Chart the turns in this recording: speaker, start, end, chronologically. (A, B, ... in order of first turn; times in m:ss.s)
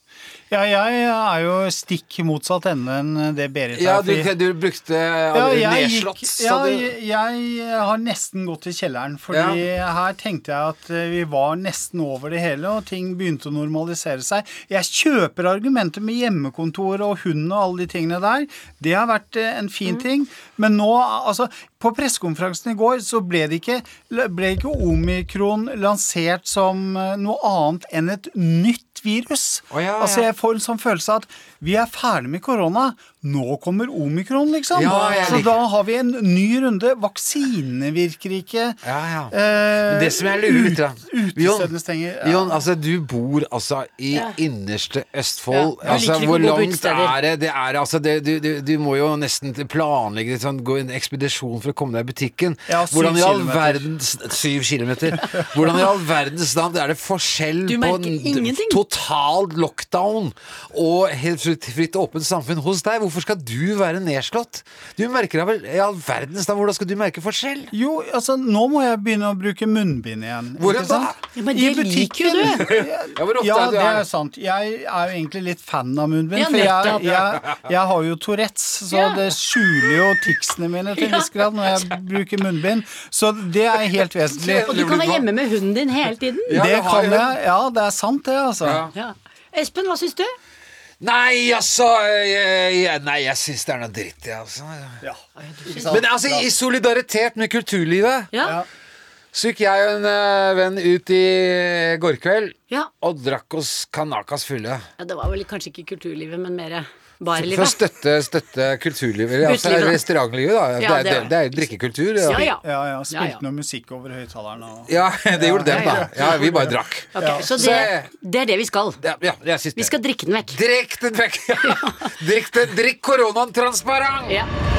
0:00.5-0:04.3 A
0:03.7-0:06.8 B
0:05.3-0:42.6 A
0:09.3-0:09.6 B
0:29.7-0:30.3 B
0:34.7-0:35.6 B
0:38.8-0:39.3 B
0:39.8-0:41.7 B
0:42.2-1:07.7 B
0:45.5-0:47.1 C
0:52.7-0:53.9 A
0:57.7-0:58.8 C
1:07.7-1:24.9 A
1:10.6-1:11.2 B
1:11.3-1:12.6 C
1:12.6-1:14.0 B
1:16.3-1:17.1 C
1:21.0-1:21.9 C
1:24.3-1:25.3 B
1:24.6-1:26.6 C
1:26.5-1:27.3 B
1:26.5-1:28.8 A
1:28.6-1:28.9 B
1:28.9-1:30.3 C
1:31.0-1:35.0 B
1:35.0-1:36.5 A
1:35.4-1:35.9 C
1:35.9-1:38.3 B
1:38.3-1:38.6 C
1:39.3-1:44.8 B
1:45.0-1:47.8 C
1:47.3-1:52.4 B
1:49.4-1:50.0 C
1:50.8-1:53.4 C
1:52.3-1:57.9 A
1:54.9-1:58.1 B
1:55.7-1:56.1 C
1:57.1-1:59.0 C
1:59.0-1:59.9 B
1:59.8-2:00.6 C
2:00.5-2:04.4 B
2:01.6-2:02.1 C